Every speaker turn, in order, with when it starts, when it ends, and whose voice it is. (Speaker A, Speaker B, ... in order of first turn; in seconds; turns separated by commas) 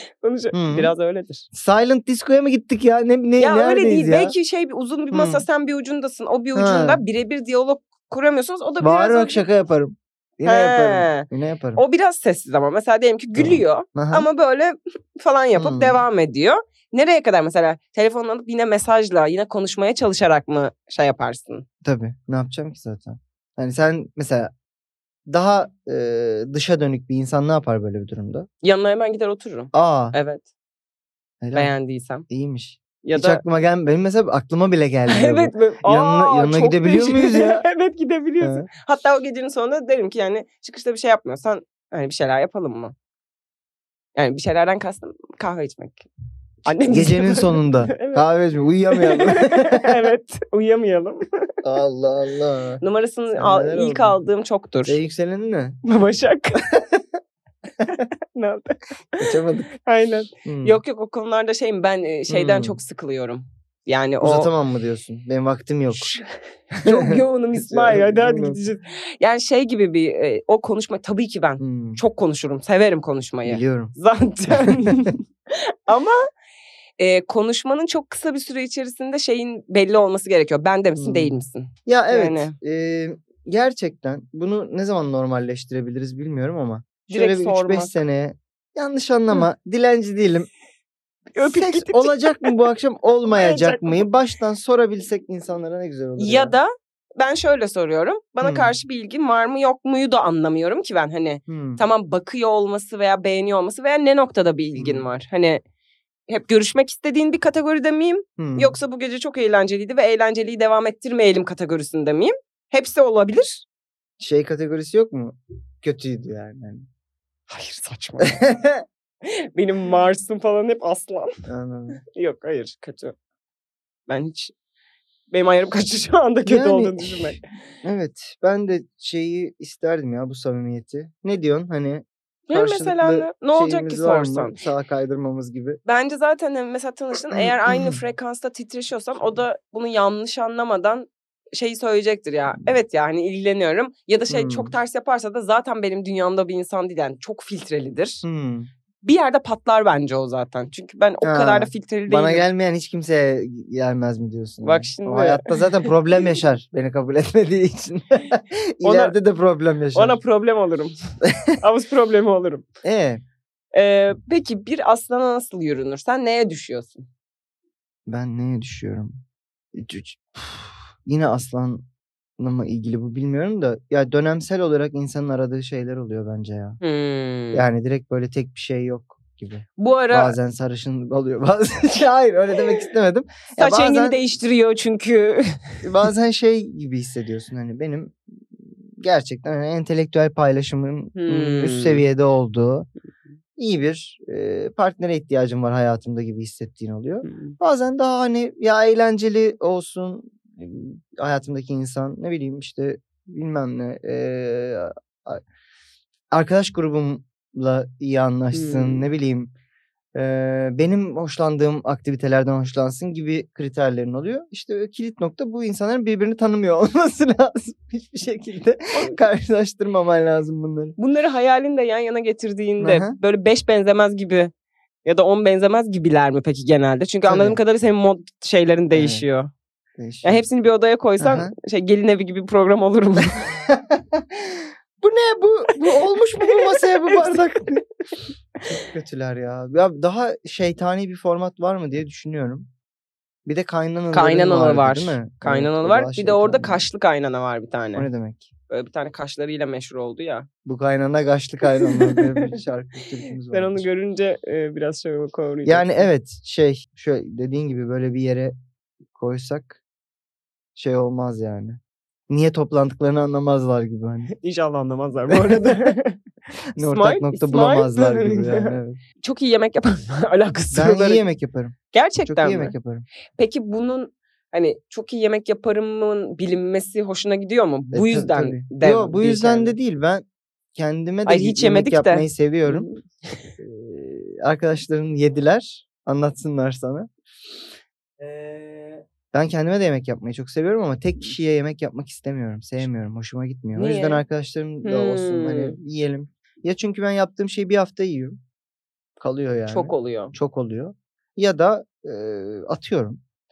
Speaker A: 0.2-1.5, Speaker B: 0.5-0.9, Speaker B: 1.5-4.3, Speaker A: 3.4-9.4, Speaker B: 5.1-5.5, Speaker B: 6.5-7.0, Speaker B: 8.8-11.8, Speaker A: 10.4-21.6, Speaker B: 13.3-14.3, Speaker B: 15.6-16.0, Speaker B: 21.8-24.5, Speaker B: 25.3-28.5, Speaker A: 28.6-30.4, Speaker B: 29.7-30.1, Speaker B: 31.4-31.7, Speaker A: 31.5-32.3, Speaker B: 32.3-37.6, Speaker A: 33.0-33.4, Speaker A: 35.1-42.9, Speaker B: 38.4-38.7, Speaker A: 44.1-46.1, Speaker A: 46.6-48.2, Speaker B: 46.9-50.1, Speaker A: 48.9-51.5, Speaker B: 51.6-52.8, Speaker A: 52.8-55.0, Speaker B: 53.3-54.2, Speaker B: 54.9-55.8, Speaker A: 55.8-56.6, Speaker B: 56.6-57.0, Speaker A: 57.9-64.5, Speaker B: 59.2-59.7, Speaker B: 60.4-60.8, Speaker B: 62.3-62.8, Speaker B: 64.2-66.1, Speaker A: 65.9-76.3, Speaker B: 66.8-68.6, Speaker B: 71.6-72.0, Speaker B: 73.5-73.9, Speaker B: 74.7-75.1, Speaker A: 77.0-82.5, Speaker B: 81.0-90.5, Speaker A: 87.1-88.0, Speaker A: 91.3-92.5, Speaker B: 91.4-96.5, Speaker A: 93.3-94.0, Speaker A: 96.2-105.6, Speaker B: 98.4-98.7, Speaker B: 101.5-101.8, Speaker B: 104.8-105.1, Speaker A: 106.3-113.7, Speaker B: 108.4-108.7, Speaker B: 114.2-116.8, Speaker A: 117.5-118.4, Speaker B: 118.2-118.8, Speaker A: 119.2-121.3, Speaker B: 121.5-122.0, Speaker A: 122.0-123.2, Speaker A: 124.1-124.5, Speaker A: 125.3-127.4, Speaker B: 126.5-135.8, Speaker A: 132.5-134.6, Speaker A: 135.8-148.2, Speaker B: 137.3-138.0, Speaker B: 144.3-144.7, Speaker B: 148.2-148.7, Speaker A: 149.0-152.4, Speaker B: 151.2-160.2, Speaker A: 154.6-155.9, Speaker A: 158.8-159.1, Speaker A: 159.9-160.9, Speaker B: 161.3-161.6, Speaker A: 161.6-162.7, Speaker B: 162.8-163.2, Speaker A: 163.7-167.1, Speaker B: 168.1-169.2, Speaker B: 169.7-171.8, Speaker B: 172.4-176.8, Speaker A: 176.8-177.7, Speaker B: 177.5-184.2, Speaker A: 179.8-180.3, Speaker A: 183.6-185.8, Speaker B: 185.8-192.9, Speaker A: 191.1-192.0, Speaker B: 193.6-205.4, Speaker A: 197.2-197.6, Speaker B: 206.3-209.5, Speaker A: 208.5-209.1, Speaker B: 210.1-220.9, Speaker A: 218.9-219.2, Speaker A: 221.0-224.5, Speaker B: 222.8-223.2, Speaker A: 225.0-229.5, Speaker B: 227.3-227.6, Speaker B: 228.9-229.2, Speaker B: 230.0-230.4, Speaker A: 230.2-233.6, Speaker B: 231.2-231.5, Speaker B: 233.5-237.8, Speaker A: 236.4-237.6, Speaker B: 238.7-242.7, Speaker B: 243.4-246.8, Speaker A: 244.1-248.1, Speaker B: 247.9-248.5, Speaker A: 248.7-250.5, Speaker B: 250.6-253.8, Speaker A: 251.8-252.6, Speaker A: 253.5-256.1, Speaker B: 255.6-258.5, Speaker B: 259.1-259.8, Speaker B: 260.7-264.3, Speaker A: 264.3-266.2, Speaker B: 265.3-265.9, Speaker B: 266.8-269.0, Speaker A: 266.8-271.2, Speaker B: 270.7-273.0, Speaker A: 271.9-272.7, Speaker A: 273.4-279.8, Speaker B: 277.9-282.9, Speaker A: 281.2-283.4, Speaker B: 283.6-287.1, Speaker A: 288.2-289.0, Speaker B: 289.3-298.4, Speaker A: 293.8-294.2, Speaker A: 294.8-295.8, Speaker B: 299.2-303.2, Speaker A: 299.7-300.3